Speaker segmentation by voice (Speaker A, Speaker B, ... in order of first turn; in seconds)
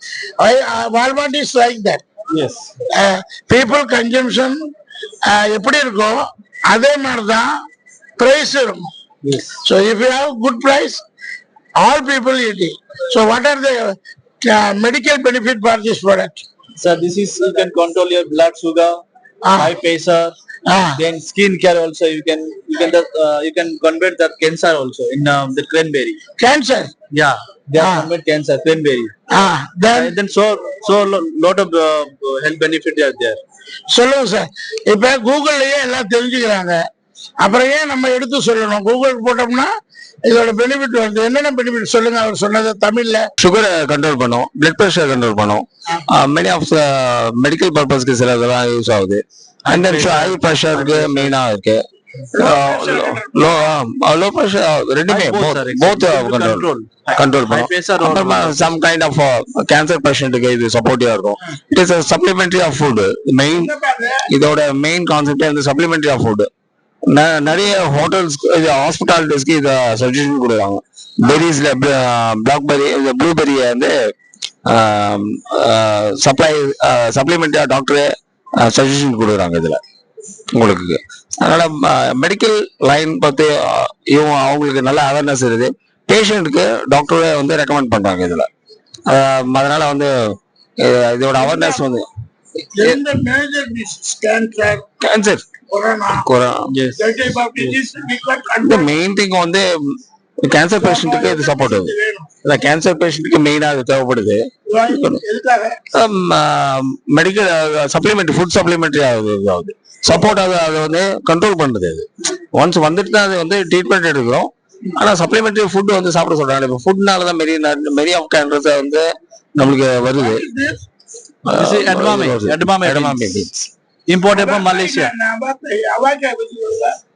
Speaker A: 0.4-2.0, 2.9-4.6, 5.2-7.5, 8.2-8.9, 9.6-11.0, 11.8-16.4, 19.4-19.7, 20.6-21.0, 26.4-26.9, 27.8-28.1, 29.3-30.1, 33.9-36.8, 37.4-39.7, 40.3-43.3, 52.3-53.8, 63.5-64.3, 91.3-91.8, 92.7-94.8, 95.7-96.2, 97.0-98.9, 100.8-102.3, 104.7-105.8, 120.2-120.7, 124.2-127.0
Speaker B: 2.3-2.7, 9.2-9.6, 16.8-19.0, 19.6-20.4, 20.9-26.2, 27.1-29.1, 29.9-33.4, 49.6-51.3, 55.1-56.9, 57.4-58.6, 96.7-97.0, 121.5-123.5, 124.1-125.1
Speaker C: 43.4-51.8, 52.3-63.7, 64.3-66.5, 67.0-73.9, 74.7-78.1, 78.6-79.8, 80.5-88.5, 89.1-90.1, 90.8-92.0, 95.0-95.5, 96.1-96.7, 98.6-99.7, 100.4-101.9, 102.4-105.2, 105.9-120.4, 121.5-123.7